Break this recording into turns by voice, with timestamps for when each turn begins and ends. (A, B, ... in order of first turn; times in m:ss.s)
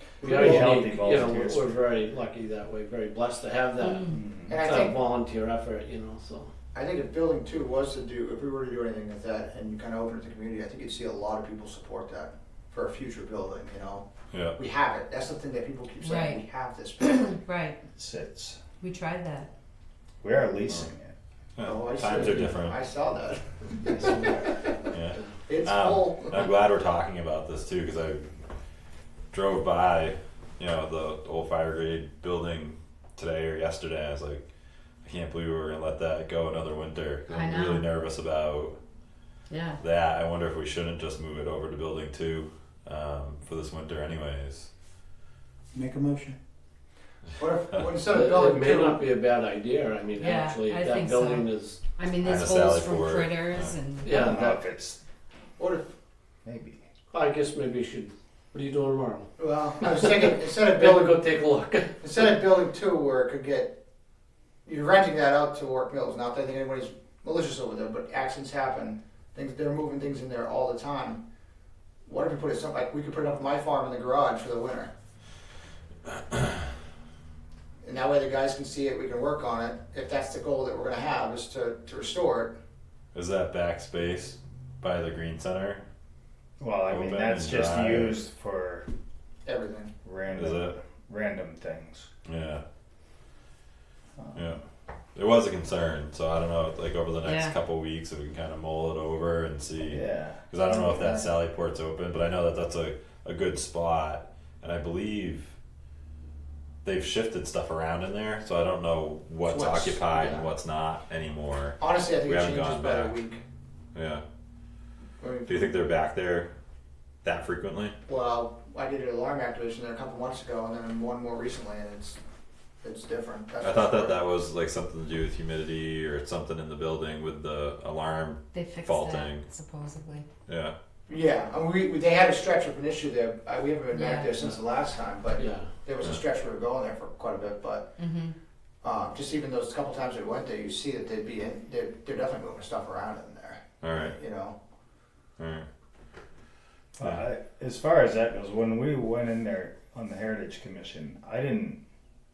0:00.2-0:02.0 A
0:00.2-0:00.8 B
0:00.2-0:06.5 C
0:03.8-0:04.2 D
0:04.1-0:04.6 A
0:04.5-0:05.0 B
0:06.7-0:17.3 B
0:14.3-0:14.6 E
0:16.0-0:16.4 D
0:17.2-0:17.8 D
0:18.0-0:18.6 A
0:18.8-0:19.5 D
0:20.2-0:21.1 A
0:21.6-0:22.8 E
0:21.6-0:26.5 B
0:23.8-0:24.6 A
0:24.9-0:28.2 E
0:29.3-0:34.4 E
0:35.0-0:38.8 E
0:37.3-0:37.9 D
0:39.5-0:39.8 D
0:39.8-0:44.7 E
0:45.7-0:46.4 B
0:47.4-0:49.0 B
0:48.1-0:51.9 C
0:50.2-0:54.4 D
0:52.2-0:53.7 E
0:54.0-0:54.6 C
0:54.1-0:55.0 A
0:55.6-0:55.9 B
0:56.4-0:56.8 A
0:57.1-1:02.2 C
0:59.4-1:01.2 B
1:02.0-1:03.8 B
1:04.6-1:11.2 B
1:12.0-1:14.9 B
1:17.8-1:22.6 B
1:23.1-1:25.8 E
1:26.6-1:28.9 A
1:26.8-1:28.2 E
1:29.4-1:29.9 B
1:30.0-1:32.1 A
1:30.3-1:30.8 E
1:32.2-1:32.6 E
1:34.2-1:34.6 A
1:34.3-1:34.6 E
1:35.1-1:45.5 E
1:37.2-1:37.6 D
1:39.8-1:40.4 A
1:46.8-1:53.1 E
1:49.5-1:50.5 B
1:51.8-1:53.4 B
1:53.9-1:54.2 E
1:55.2-1:55.8 B
1:55.5-1:56.5 E
1:57.2-1:58.0 E
1:58.1-2:02.2 B
2:02.8-2:04.2 B
2:03.6-2:09.4 E
2:08.5-2:10.2 D
2:10.5-2:10.7 E
2:11.1-2:17.9 B
2:13.9-2:14.3 D
2:15.4-2:15.7 C
2:18.0-2:18.3 D
2:18.8-2:24.6 B
2:23.8-2:24.2 E
2:25.4-2:25.7 E
2:27.0-2:31.8 A